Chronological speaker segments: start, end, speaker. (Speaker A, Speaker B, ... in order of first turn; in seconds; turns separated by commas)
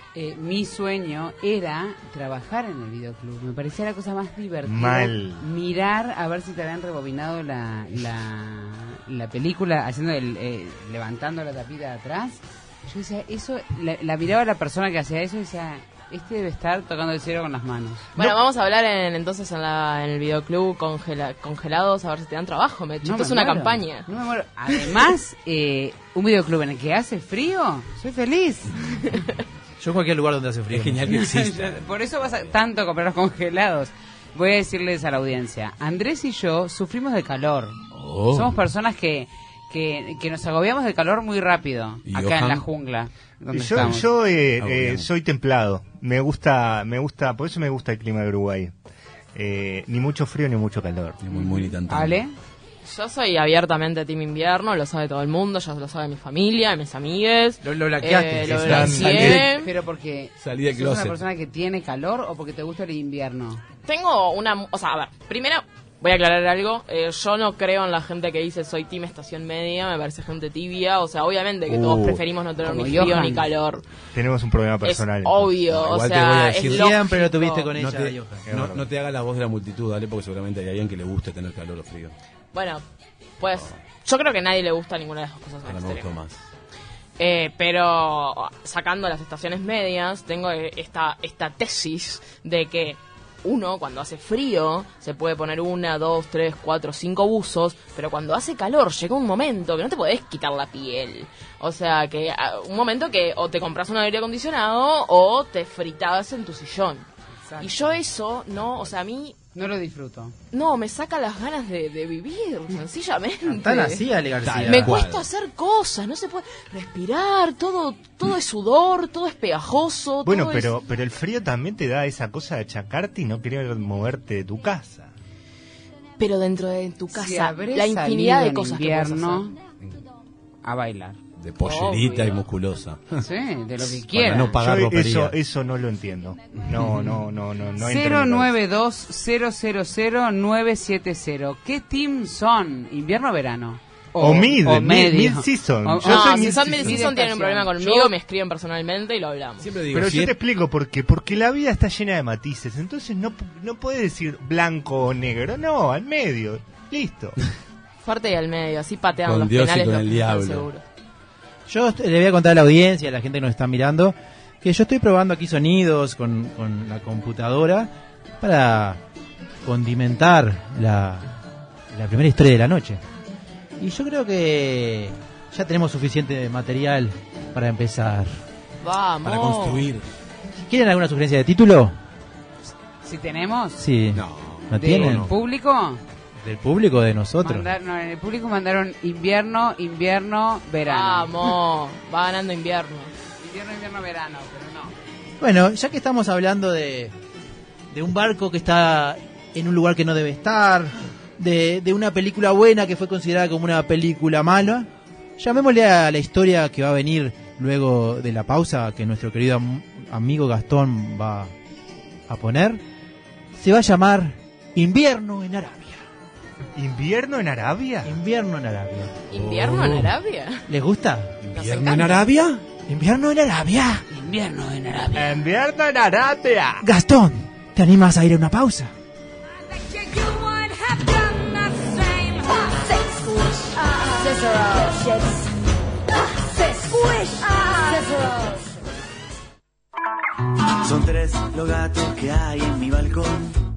Speaker A: 0.1-18.1, Speaker B: 4.7-5.4, Speaker C: 18.1-24.1, Speaker A: 23.0-28.8, Speaker D: 29.8-31.2, Speaker E: 30.7-32.5, Speaker A: 31.1-37.8, Speaker E: 37.9-38.6, Speaker A: 38.3-44.1, Speaker E: 42.1-42.7, Speaker B: 43.5-48.7, Speaker E: 43.8-44.0, Speaker E: 44.6-45.1, Speaker B: 49.3-51.2, Speaker E: 51.2-52.2, Speaker A: 51.3-52.3, Speaker C: 52.8-59.7, Speaker D: 57.6-59.4, Speaker E: 58.5-59.6, Speaker B: 58.6-59.3, Speaker A: 59.3-63.6, Speaker E: 60.4-61.2, Speaker C: 63.9-73.9, Speaker B: 71.7-72.2, Speaker A: 72.6-73.5, Speaker B: 74.1-75.6, Speaker C: 74.8-77.7, Speaker E: 75.7-77.0, Speaker D: 76.6-78.5, Speaker E: 77.7-82.2, Speaker B: 78.5-78.9, Speaker C: 82.5-82.8, Speaker C: 83.4-86.2, Speaker E: 85.6-86.4, Speaker C: 87.2-107.1, Speaker A: 107.5-108.0, Speaker C: 107.6-109.4, Speaker A: 109.5-110.3, Speaker C: 110.5-114.0, Speaker D: 113.4-115.0, Speaker E: 114.4-115.3, Speaker C: 114.7-120.7, Speaker B: 120.2-125.1, Speaker C: 126.2-129.5, Speaker A: 127.1-129.6, Speaker A: 130.6-131.2, Speaker E: 131.4-133.3, Speaker C: 131.6-132.4, Speaker A: 133.2-134.6, Speaker E: 133.8-135.4, Speaker B: 134.6-138.5, Speaker E: 136.7-137.2, Speaker A: 137.8-148.1, Speaker B: 144.2-147.0, Speaker C: 146.0-149.8, Speaker E: 149.6-150.3, Speaker B: 149.9-157.4, Speaker C: 158.0-160.8, Speaker E: 159.2-160.7, Speaker D: 161.7-169.0, Speaker D: 169.6-171.3, Speaker D: 171.9-173.0, Speaker D: 173.8-178.4, Speaker C: 178.8-179.9, Speaker E: 179.2-180.1, Speaker D: 180.5-182.0, Speaker A: 183.0-183.8, Speaker D: 183.8-185.3, Speaker E: 184.2-185.3, Speaker A: 184.7-186.0, Speaker D: 186.4-187.7, Speaker A: 187.4-191.3, Speaker C: 190.9-193.1, Speaker A: 193.4-194.9, Speaker D: 195.4-197.2, Speaker D: 197.9-211.5, Speaker D: 212.3-212.8, Speaker D: 213.6-216.1, Speaker B: 216.8-218.1, Speaker D: 218.0-219.2, Speaker C: 219.3-220.7, Speaker E: 219.3-220.2, Speaker D: 220.7-221.4, Speaker E: 221.4-222.6, Speaker C: 221.6-222.3, Speaker D: 222.9-224.0, Speaker A: 224.1-225.4, Speaker B: 225.1-226.9, Speaker D: 226.8-228.9, Speaker F: 229.8-238.8, Speaker F: 240.9-243.4